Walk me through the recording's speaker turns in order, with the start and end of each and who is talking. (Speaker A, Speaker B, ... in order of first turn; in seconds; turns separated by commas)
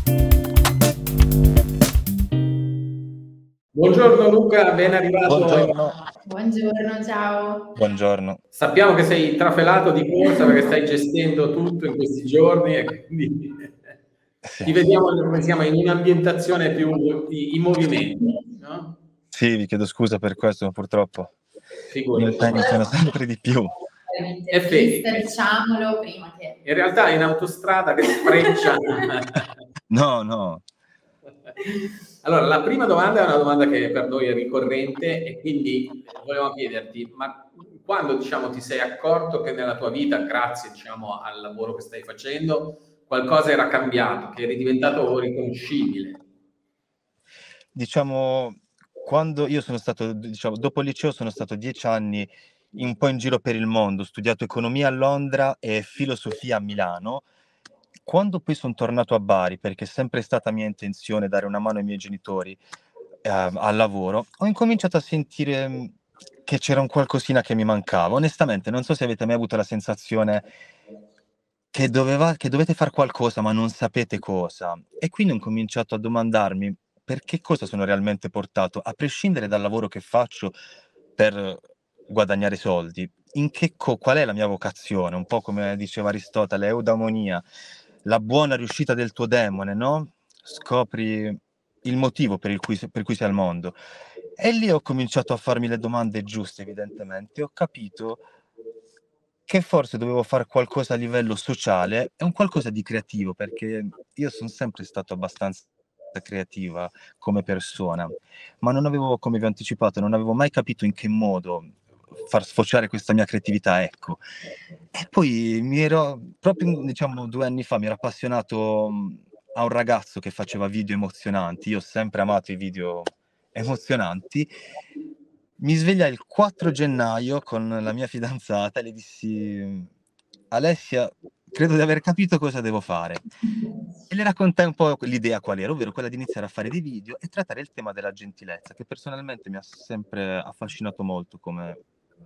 Speaker A: 3.7-5.7, Speaker B: 5.2-6.0, Speaker C: 6.2-7.8, Speaker B: 7.8-8.4, Speaker A: 8.5-13.7, Speaker B: 14.4-14.8, Speaker A: 14.7-18.9, Speaker B: 19.3-21.3, Speaker A: 21.9-22.8, Speaker B: 22.1-23.7, Speaker C: 24.1-26.6, Speaker A: 24.5-25.3, Speaker A: 26.6-29.5, Speaker B: 29.9-30.6, Speaker A: 32.2-46.2, Speaker B: 47.7-57.3, Speaker B: 58.0-62.6, Speaker B: 63.2-70.5, Speaker B: 71.7-80.6, Speaker B: 81.2-87.5, Speaker B: 88.0-93.8, Speaker B: 94.4-98.2, Speaker B: 99.5-114.2, Speaker B: 114.9-124.5, Speaker B: 125.6-129.9, Speaker B: 130.5-133.2, Speaker B: 134.1-141.8